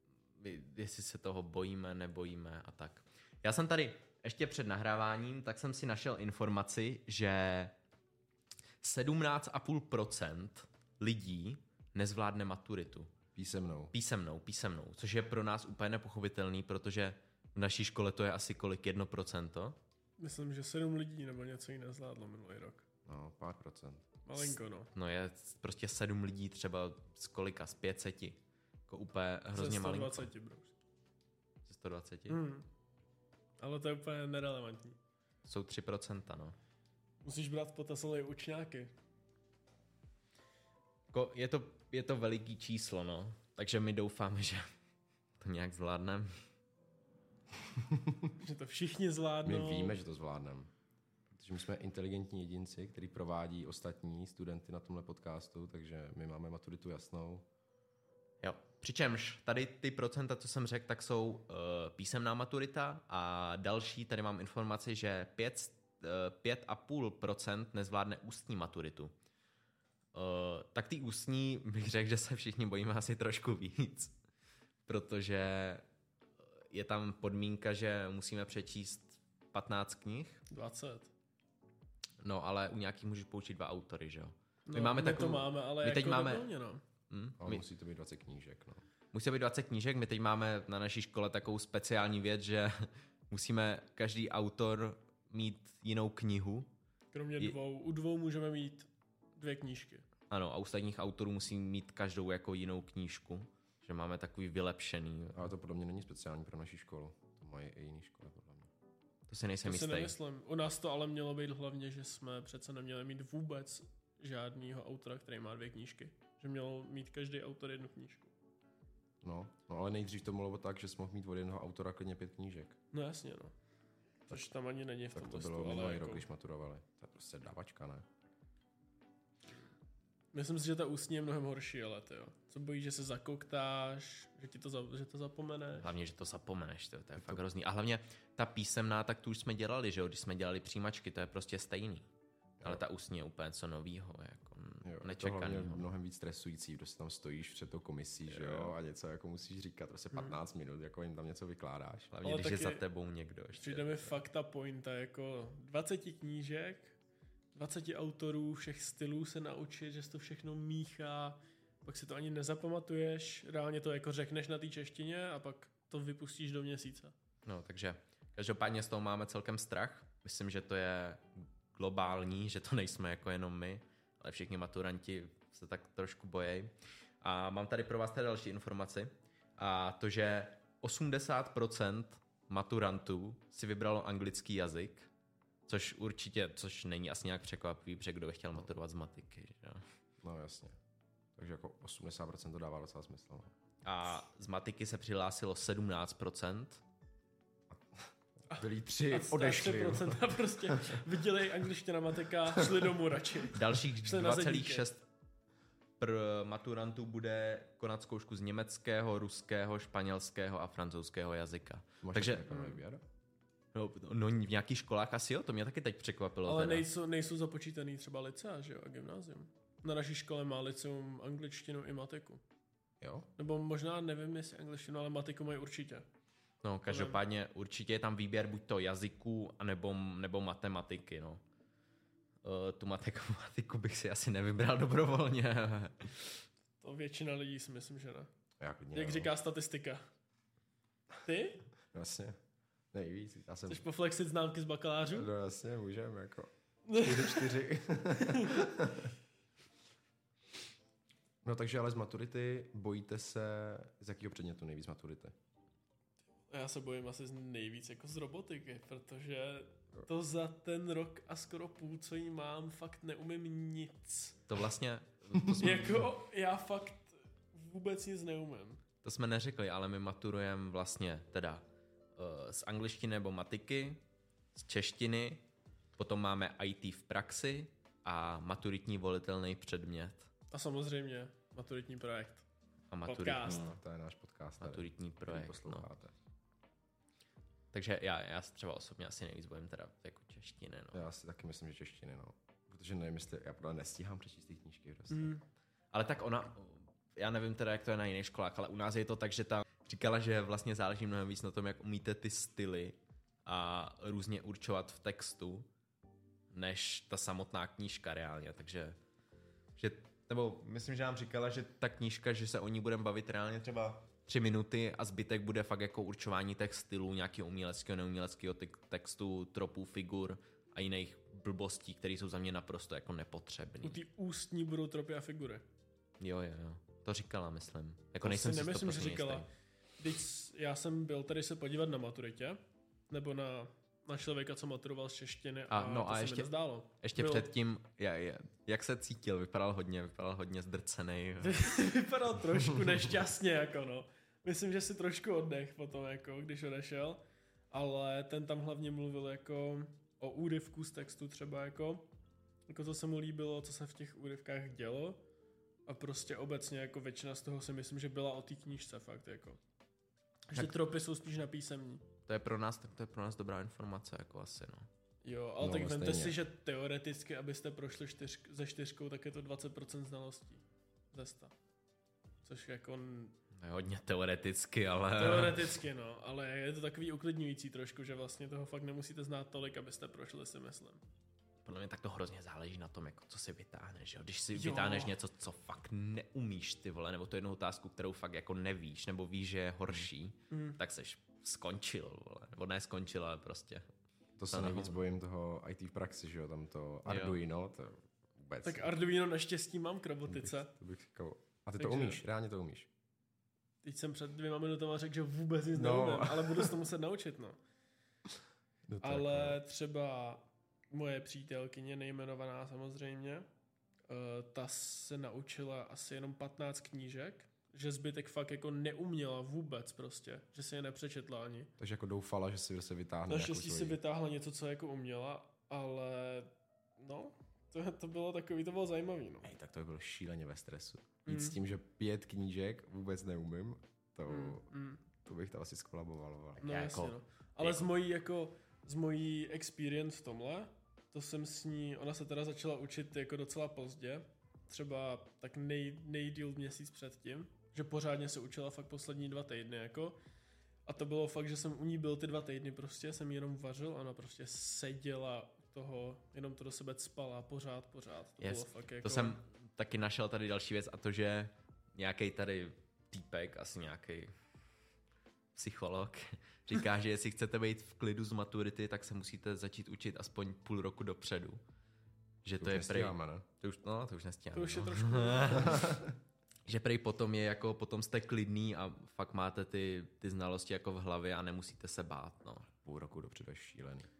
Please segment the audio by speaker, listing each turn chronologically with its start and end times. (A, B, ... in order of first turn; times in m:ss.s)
0:00.4-0:07.7 A
0:08.8-0:13.1 A
0:13.3-0:13.9 B
0:13.9-0:19.8 A
0:20.2-0:22.8 C
0:23.0-0:24.1 B
0:24.2-0:24.9 C
0:24.9-0:30.3 A
0:29.5-0:30.7 C
0:31.7-0:32.4 A
0:32.3-0:32.6 C
0:33.6-0:35.0 C
0:35.4-0:36.6 A
0:37.2-0:38.9 C
0:41.1-0:44.7 A
0:45.4-0:46.4 A
0:47.7-0:48.3 B
0:48.4-0:50.0 C
0:49.4-0:50.7 B
0:51.3-0:57.4 B
0:58.4-1:09.1 A
1:10.1-1:14.1 A
1:14.9-1:15.8 A
1:16.6-1:20.4 A
1:20.5-1:21.1 C
1:22.2-1:26.5 A
1:24.7-1:26.8 C
1:27.1-1:27.6 A
1:27.4-1:28.8 B
1:29.1-1:36.7 A
1:37.1-1:40.0 C
1:40.3-1:45.5 A
1:45.3-1:48.7 B
1:49.3-1:50.1 A
1:49.6-1:58.3 C
1:59.2-2:02.8 B
2:02.9-2:03.5 C
2:04.3-2:06.2 C
2:05.1-2:08.0 B
2:10.3-2:15.9 C
2:15.8-2:22.1 A
2:17.2-2:17.4 B
2:22.6-2:25.9 A
2:24.8-2:32.1 B
2:28.3-2:28.7 A
2:32.1-2:34.1 A
2:32.2-2:32.8 C
2:33.6-2:37.0 C
2:37.5-2:47.1 C
2:47.4-3:05.1 A
3:05.7-3:09.8 A
3:10.2-3:10.8 B
3:11.4-3:13.5 B
3:13.8-3:16.8 A
3:17.7-3:21.0 B
3:18.5-3:24.9 C
3:23.5-3:25.0 A
3:26.0-3:32.6 A
3:32.0-3:33.0 B
3:32.5-3:32.8 C
3:33.7-3:36.9 A
3:36.4-3:42.4 C
3:43.0-3:43.3 B
3:43.4-3:46.0 C
3:46.6-3:51.4 A
3:46.9-3:47.2 C
3:52.4-3:56.4 A
3:56.8-3:58.3 C
3:58.6-3:59.3 B
3:58.9-4:00.0 C
4:01.2-4:01.6 C
4:01.9-4:02.4 B
4:02.9-4:03.8 B
4:03.7-4:05.3 C
4:05.1-4:09.1 B
4:06.9-4:07.5 C
4:08.2-4:08.7 C
4:11.4-4:15.3 B
4:16.5-4:24.4 C
4:24.5-4:26.1 A
4:25.6-4:28.8 C
4:29.0-4:31.6 A
4:32.2-4:34.0 A
4:34.5-4:35.4 A
4:36.0-4:40.3 A
4:40.5-4:42.4 C
4:42.9-4:43.7 A
4:43.0-4:43.7 C
4:43.4-4:46.1 B
4:44.6-4:45.8 A
4:47.7-4:51.0 A
4:50.9-4:55.3 B
4:55.1-4:55.4 C
4:55.9-5:05.7 A
5:06.5-5:09.0 A
5:09.8-5:24.0 A
5:23.8-5:25.6 C
5:26.2-5:29.5 A
5:28.2-5:29.4 C
5:30.0-5:37.5 C
5:35.7-5:41.7 A
5:41.4-5:52.1 C
5:52.7-5:55.2 C
5:55.8-5:59.6 C
6:00.5-6:02.0 C
6:02.3-6:04.9 A
6:05.2-6:10.6 C
6:05.6-6:06.4 B
6:11.1-6:11.5 C
6:12.4-6:13.3 C
6:13.5-6:15.8 A
6:15.2-6:21.0 C
6:21.6-6:33.8 A
6:24.5-6:25.1 C
6:30.5-6:30.8 C
6:34.4-6:39.0 B
6:34.5-6:35.0 A
6:37.0-6:37.4 A
6:38.6-6:40.7 C
6:40.2-6:42.9 B
6:41.8-6:42.2 C
6:43.8-6:47.6 C
6:45.7-6:46.7 B
6:48.9-6:49.6 B
6:49.0-6:53.4 C
6:54.1-7:01.7 C
7:01.8-7:04.0 B
7:03.3-7:09.5 C
7:09.4-7:14.7 B
7:11.2-7:11.6 C
7:14.3-7:15.0 C
7:15.2-7:16.7 B
7:16.6-7:17.9 A
7:16.6-7:30.2 C
7:30.9-7:39.4 C
7:38.4-7:44.3 A
7:45.5-7:51.6 A
7:52.4-7:56.0 A
7:52.6-7:53.4 B
7:54.5-7:55.9 C
7:55.6-7:56.1 B
7:56.6-8:02.7 A
8:02.8-8:04.1 B